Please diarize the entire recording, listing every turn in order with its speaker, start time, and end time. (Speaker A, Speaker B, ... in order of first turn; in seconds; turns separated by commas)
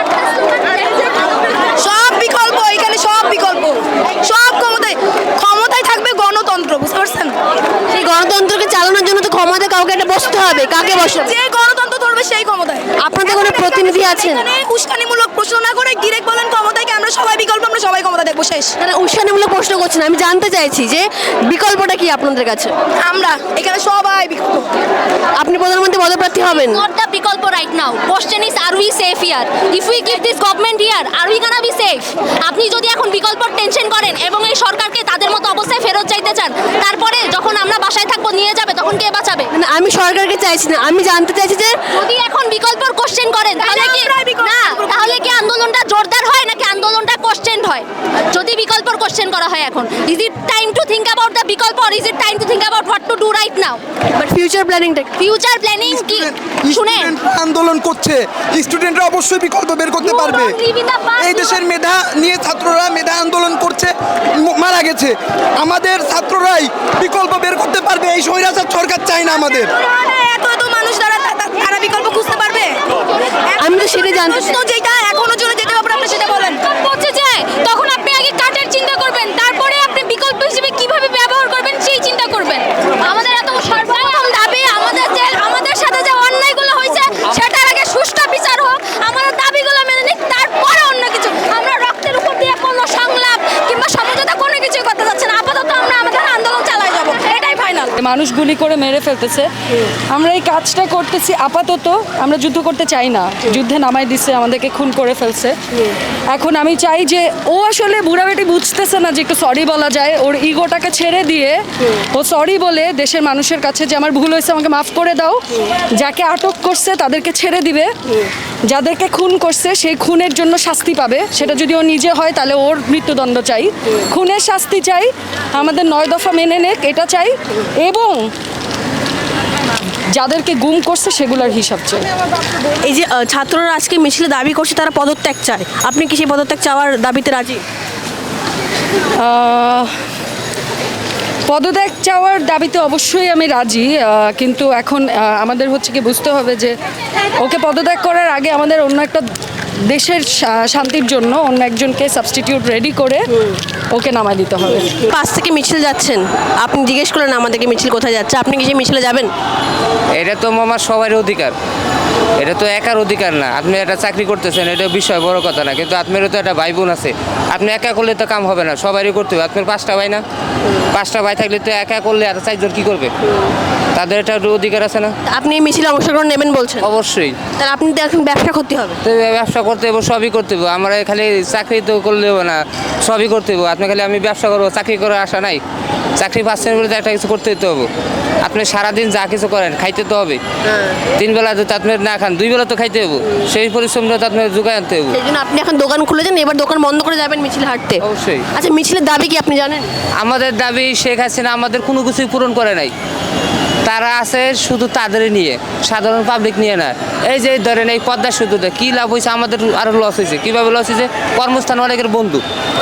Speaker A: 1.8-7.4, Speaker B: 7.9-11.3, Speaker A: 10.6-18.8, Speaker B: 13.0-14.4, Speaker B: 18.8-22.7, Speaker A: 23.1-24.7, Speaker B: 25.4-26.8, Speaker C: 26.4-39.5, Speaker B: 39.5-41.8, Speaker C: 41.9-53.8, Speaker A: 43.6-45.3, Speaker B: 54.1-55.2, Speaker C: 55.2-57.1, Speaker D: 55.8-60.6, Speaker C: 60.0-61.6, Speaker D: 61.2-69.7, Speaker A: 69.4-72.8, Speaker A: 73.5-76.6, Speaker B: 73.6-74.6, Speaker C: 76.6-97.8, Speaker A: 97.3-97.9, Speaker E: 97.9-99.5, Speaker E: 100.1-105.6, Speaker E: 106.3-115.4, Speaker E: 115.9-117.9, Speaker E: 118.7-128.3, Speaker E: 130.1-132.1, Speaker B: 132.8-137.6, Speaker E: 139.2-139.9, Speaker E: 141.5-146.8, Speaker E: 147.4-149.2, Speaker E: 149.9-153.2, Speaker E: 153.9-154.9, Speaker B: 155.0-159.3, Speaker F: 160.2-161.5, Speaker F: 162.4-170.2, Speaker F: 170.9-173.1, Speaker B: 173.2-173.5, Speaker F: 173.9-175.2, Speaker B: 175.3-176.9, Speaker F: 176.8-177.4, Speaker B: 177.6-179.0, Speaker F: 179.0-185.6, Speaker F: 186.2-187.9, Speaker F: 188.4-190.4, Speaker B: 190.7-191.0, Speaker F: 191.2-195.2, Speaker B: 193.2-193.5, Speaker B: 195.1-198.0, Speaker F: 198.0-198.5, Speaker B: 198.5-199.9, Speaker F: 200.2-202.9, Speaker F: 203.9-212.4